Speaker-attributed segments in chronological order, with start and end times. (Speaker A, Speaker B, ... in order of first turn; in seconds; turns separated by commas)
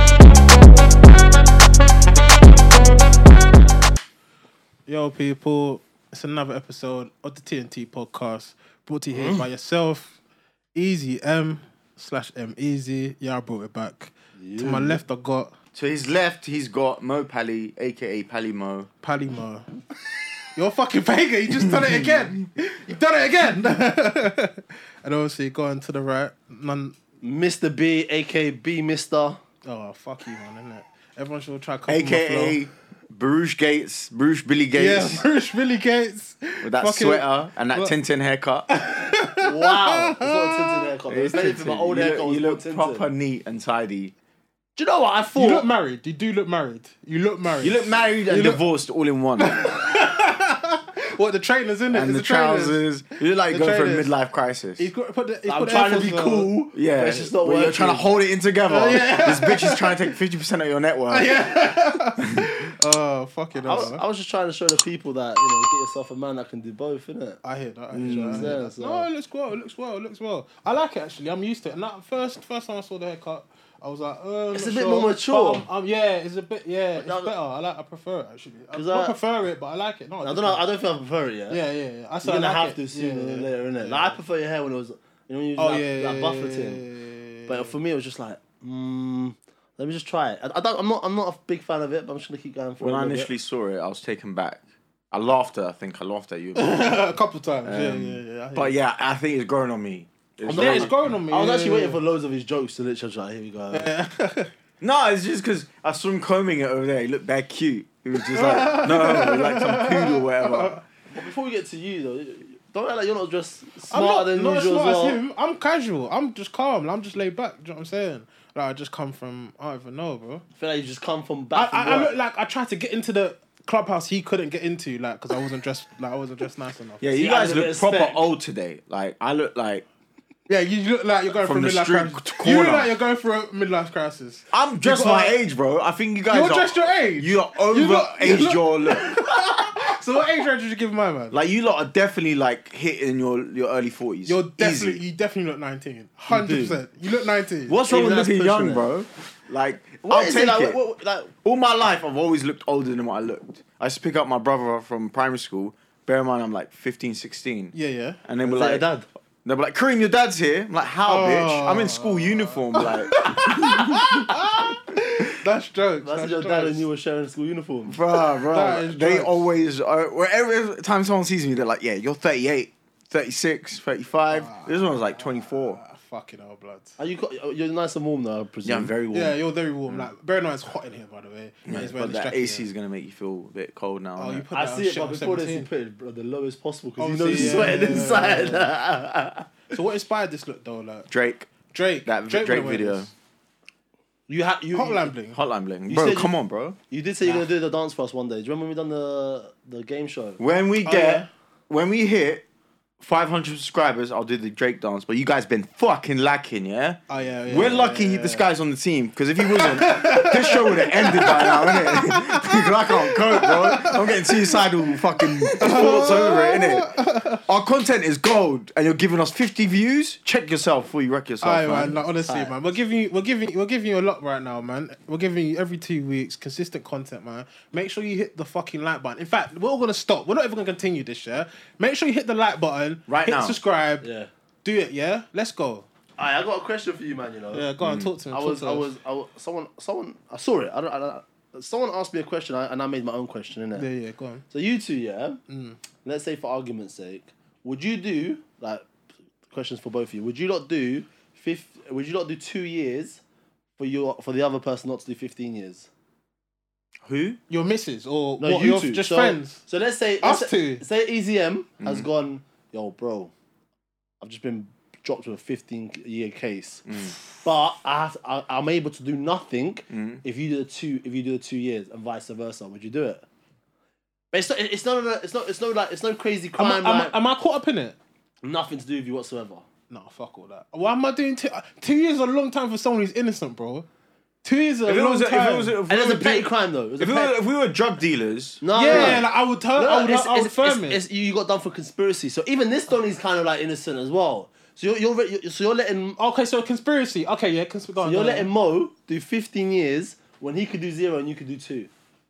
Speaker A: 4.9-10.2, Speaker B: 9.1-9.4, Speaker A: 10.7-15.5, Speaker B: 14.3-15.0, Speaker C: 15.7-18.9, Speaker A: 19.0-19.7, Speaker A: 20.5-26.9, Speaker B: 27.2-29.4, Speaker A: 29.6-32.6, Speaker C: 31.9-35.2, Speaker A: 34.8-37.9, Speaker C: 36.6-38.7, Speaker A: 38.7-40.8, Speaker B: 39.4-43.0, Speaker C: 41.1-44.1, Speaker B: 44.8-45.6, Speaker A: 45.3-48.6, Speaker C: 47.6-49.6, Speaker A: 49.4-52.8, Speaker C: 51.9-54.9, Speaker A: 53.5-54.1, Speaker A: 54.8-56.5, Speaker B: 55.5-58.0, Speaker C: 56.7-61.3, Speaker A: 58.7-60.0, Speaker A: 61.1-64.0, Speaker B: 63.5-67.4, Speaker A: 67.4-80.6, Speaker C: 67.9-68.5, Speaker B: 68.0-69.1, Speaker B: 74.5-75.7, Speaker B: 77.0-77.3, Speaker B: 78.7-79.2, Speaker B: 80.2-81.6, Speaker A: 81.5-84.2, Speaker B: 82.2-86.8, Speaker A: 85.6-87.7, Speaker B: 87.5-93.3, Speaker C: 92.8-94.6, Speaker C: 95.1-96.9, Speaker A: 96.5-98.7, Speaker C: 97.6-100.9, Speaker B: 100.5-103.9, Speaker A: 100.5-102.0, Speaker A: 103.7-104.5, Speaker C: 104.8-110.8, Speaker A: 108.3-110.8, Speaker B: 111.1-115.2, Speaker A: 113.9-120.4, Speaker B: 120.6-122.1, Speaker A: 121.5-127.1, Speaker C: 127.0-129.8, Speaker B: 127.1-128.2, Speaker A: 130.5-134.4, Speaker C: 131.4-132.9, Speaker C: 134.5-139.1, Speaker B: 134.9-135.2, Speaker A: 136.3-141.3, Speaker C: 141.3-145.0, Speaker A: 144.2-147.8, Speaker B: 146.3-146.8, Speaker C: 147.7-150.8, Speaker B: 147.9-148.9, Speaker B: 150.0-151.3, Speaker C: 151.3-157.7, Speaker A: 157.7-158.2, Speaker C: 158.2-158.9, Speaker B: 158.4-159.1, Speaker C: 159.4-164.3, Speaker A: 161.1-166.8, Speaker B: 166.0-168.0, Speaker C: 167.9-175.8, Speaker A: 168.5-169.5, Speaker A: 174.3-177.0, Speaker B: 177.0-178.9, Speaker C: 178.6-179.4, Speaker A: 179.1-182.7, Speaker C: 181.7-184.4, Speaker A: 184.2-185.7, Speaker B: 184.5-189.5, Speaker A: 187.0-188.7, Speaker A: 189.7-191.1, Speaker C: 191.1-191.5, Speaker A: 191.7-193.1, Speaker C: 192.0-193.1, Speaker B: 194.3-195.1, Speaker A: 194.7-195.4, Speaker C: 195.3-196.8, Speaker B: 195.9-196.3, Speaker B: 196.9-200.4, Speaker C: 200.4-202.4, Speaker A: 200.8-201.3, Speaker C: 203.0-216.9, Speaker A: 207.1-208.4, Speaker A: 209.6-214.4, Speaker A: 215.5-217.4, Speaker C: 217.4-221.9, Speaker A: 221.4-234.0, Speaker B: 221.8-222.5, Speaker C: 233.1-233.6, Speaker B: 234.0-234.3, Speaker A: 234.6-235.9, Speaker B: 236.2-237.7, Speaker A: 237.5-238.9, Speaker C: 237.8-238.1, Speaker B: 238.3-243.8, Speaker A: 243.8-244.4, Speaker B: 244.5-245.4, Speaker A: 245.5-245.8, Speaker B: 246.0-248.9, Speaker B: 249.5-253.2, Speaker B: 253.8-255.9, Speaker C: 257.0-257.4, Speaker A: 257.5-259.6, Speaker B: 258.4-263.3, Speaker A: 260.2-260.8, Speaker C: 261.8-262.1, Speaker B: 264.2-273.2, Speaker C: 266.9-267.1, Speaker C: 269.9-270.2, Speaker B: 274.3-277.1, Speaker A: 276.6-278.0, Speaker B: 278.4-279.6, Speaker A: 279.9-283.9, Speaker A: 284.4-285.8, Speaker C: 284.8-289.2, Speaker B: 285.9-287.3, Speaker B: 288.6-296.2, Speaker A: 288.7-291.0, Speaker A: 296.2-298.5, Speaker B: 298.0-301.9